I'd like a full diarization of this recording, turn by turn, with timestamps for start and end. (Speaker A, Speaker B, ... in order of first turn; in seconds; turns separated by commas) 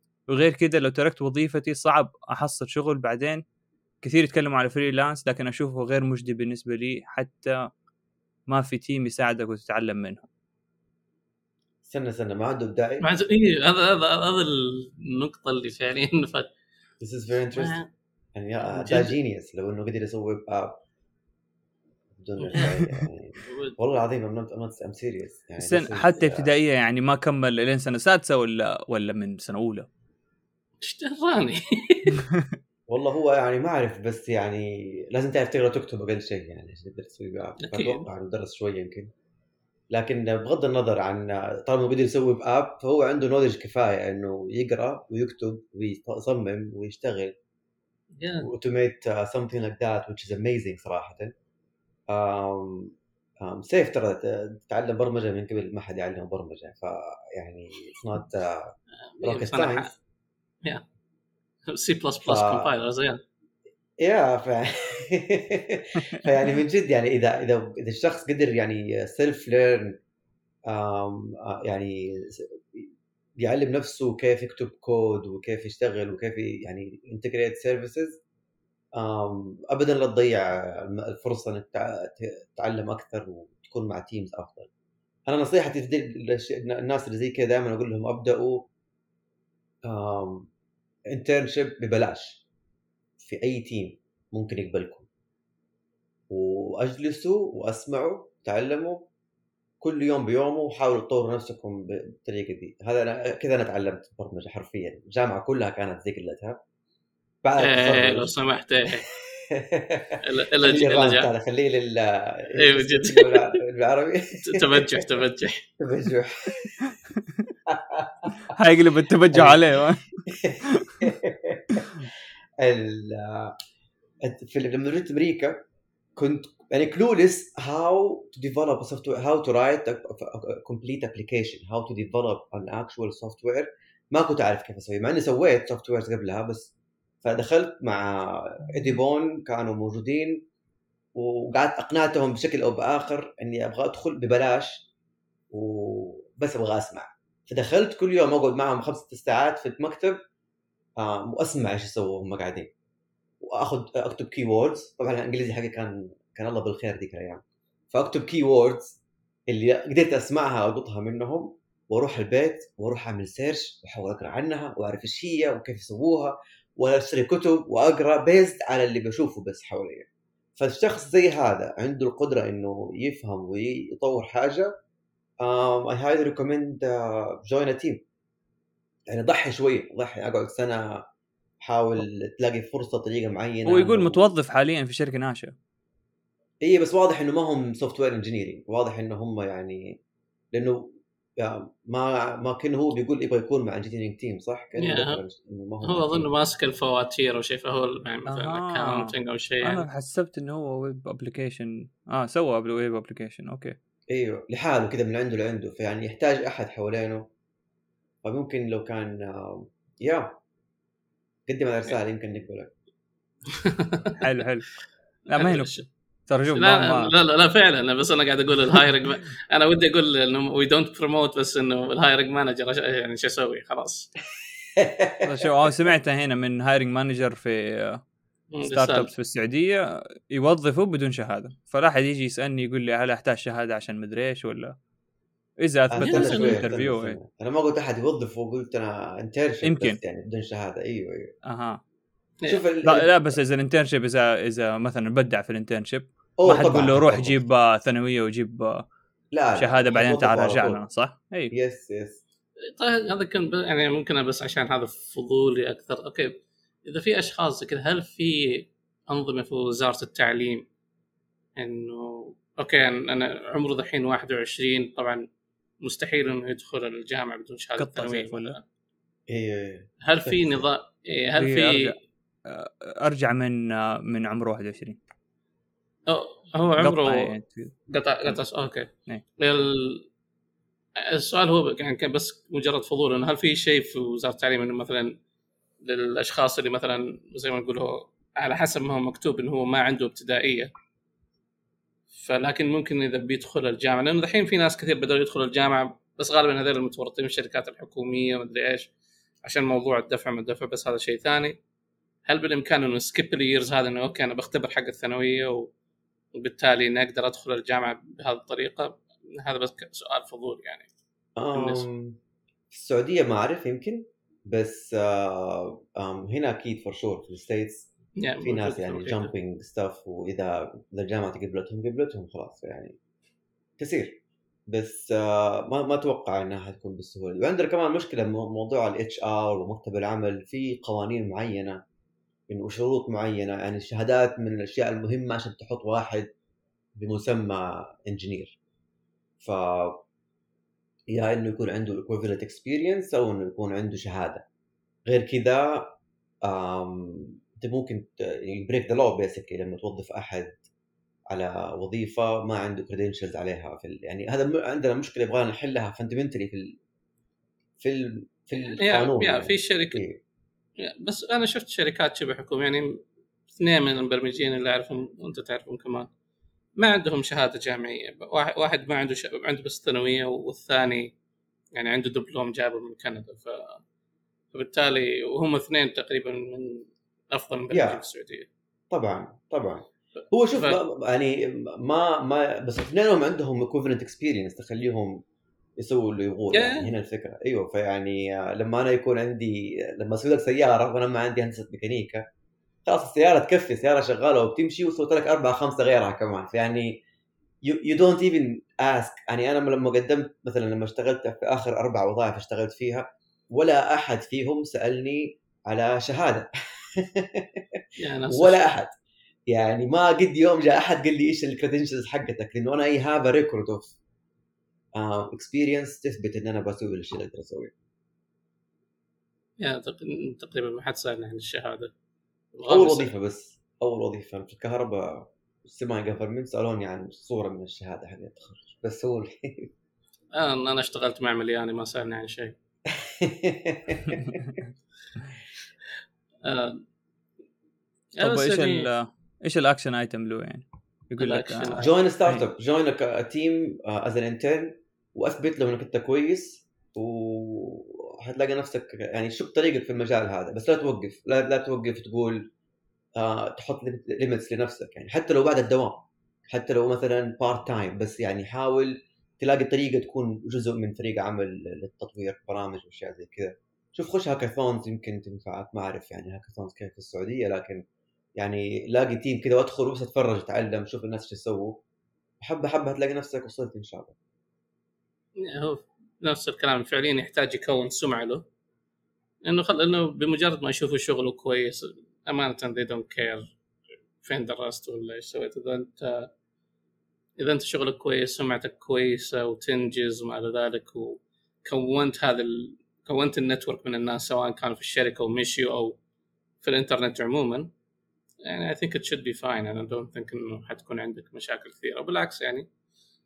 Speaker A: 0.3-3.4, Speaker A: 4.0-7.7, Speaker A: 8.5-10.3, Speaker B: 11.8-13.1, Speaker C: 13.0-16.5, Speaker B: 17.0-17.8, Speaker C: 17.5-17.9, Speaker B: 18.3-20.8, Speaker C: 18.6-19.1, Speaker B: 22.2-26.5, Speaker C: 22.4-22.8, Speaker C: 23.5-23.7, Speaker A: 25.6-29.9, Speaker C: 30.8-32.1, Speaker B: 32.9-39.1, Speaker C: 37.6-38.0, Speaker B: 39.9-47.4, Speaker C: 48.2-48.5, Speaker B: 48.4-51.3, Speaker B: 52.1-59.9, Speaker C: 59.2-59.9, Speaker C: 61.7-63.2, Speaker B: 62.2-62.7, Speaker B: 64.0-69.9, Speaker B: 70.7-78.2, Speaker B: 79.0-84.7, Speaker B: 85.3-88.7, Speaker B: 89.8-90.5, Speaker B: 91.1-92.4, Speaker B: 93.2-95.1, Speaker B: 96.3-99.0, Speaker B: 99.8-106.6, Speaker B: 107.4-108.3, Speaker C: 107.6-109.0, Speaker B: 109.3-115.1, Speaker C: 110.2-111.3, Speaker C: 112.6-113.5, Speaker C: 114.5-115.6, Speaker B: 115.8-116.8, Speaker B: 117.7-118.3, Speaker A: 118.5-120.1, Speaker B: 119.3-119.6, Speaker B: 120.3-121.9, Speaker A: 120.7-121.0, Speaker B: 122.6-123.5, Speaker B: 124.2-125.7, Speaker B: 126.2-140.4, Speaker B: 141.1-144.8, Speaker B: 145.5-150.2, Speaker B: 151.0-152.7, Speaker B: 153.4-174.7, Speaker B: 175.4-178.0, Speaker B: 179.1-181.1, Speaker B: 181.6-184.2, Speaker A: 183.7-185.5, Speaker B: 186.6-190.0, Speaker B: 190.5-196.3, Speaker C: 194.8-195.2, Speaker C: 195.8-199.8, Speaker A: 198.3-199.1, Speaker A: 199.6-203.8, Speaker B: 204.1-207.3, Speaker B: 208.2-210.4, Speaker B: 211.5-212.7, Speaker C: 213.5-214.2, Speaker A: 214.2-214.7, Speaker A: 215.3-217.1, Speaker C: 215.3-215.8, Speaker C: 216.5-224.1, Speaker B: 224.8-225.5, Speaker A: 225.2-228.0, Speaker C: 228.5-229.1, Speaker A: 228.6-234.8, Speaker A: 235.6-237.2, Speaker B: 235.9-241.3, Speaker C: 236.0-236.6, Speaker A: 239.6-240.0, Speaker A: 241.4-241.8, Speaker B: 242.5-243.4, Speaker A: 242.8-248.9, Speaker B: 246.4-247.4, Speaker B: 249.3-250.8, Speaker A: 249.5-251.5, Speaker B: 251.5-252.2, Speaker C: 252.7-260.6, Speaker C: 261.6-265.2, Speaker C: 265.8-268.6, Speaker A: 267.8-268.6, Speaker B: 269.3-270.7, Speaker C: 270.0-271.9, Speaker A: 271.4-275.0, Speaker C: 276.1-277.3, Speaker A: 276.8-278.4, Speaker C: 277.9-280.1, Speaker C: 281.0-285.1, Speaker C: 285.8-290.7, Speaker C: 292.1-298.9, Speaker C: 299.4-301.6, Speaker C: 302.2-305.7, Speaker C: 306.3-310.9, Speaker B: 311.4-312.2, Speaker C: 311.5-311.8, Speaker B: 312.7-317.9, Speaker C: 318.2-319.3, Speaker B: 318.4-322.9, Speaker B: 323.8-331.8, Speaker B: 332.5-336.3, Speaker B: 337.0-338.6, Speaker B: 339.4-340.0, Speaker B: 341.1-344.4, Speaker B: 345.1-350.6, Speaker B: 351.3-356.8, Speaker B: 357.8-360.2, Speaker C: 358.8-360.0, Speaker C: 360.8-363.0, Speaker C: 363.5-366.1, Speaker C: 366.8-371.1, Speaker C: 371.7-373.8, Speaker C: 374.5-378.5, Speaker B: 377.7-378.0, Speaker B: 378.9-385.2, Speaker B: 385.8-392.2, Speaker C: 386.5-386.9, Speaker B: 392.9-397.0, Speaker B: 397.6-408.9, Speaker C: 408.0-408.6, Speaker B: 409.5-413.9, Speaker B: 414.9-417.7, Speaker C: 419.6-421.9, Speaker C: 422.5-423.1, Speaker B: 422.7-429.7, Speaker C: 430.3-432.5, Speaker B: 432.9-434.4, Speaker C: 436.4-436.8, Speaker C: 438.2-438.9, Speaker A: 438.2-442.4, Speaker C: 441.2-441.9, Speaker B: 441.8-452.5, Speaker B: 453.1-467.8, Speaker B: 468.4-471.8, Speaker B: 472.4-474.1, Speaker C: 475.4-478.4, Speaker C: 479.4-483.5, Speaker C: 484.2-486.3, Speaker C: 487.4-496.0, Speaker C: 496.6-497.7, Speaker C: 498.4-502.7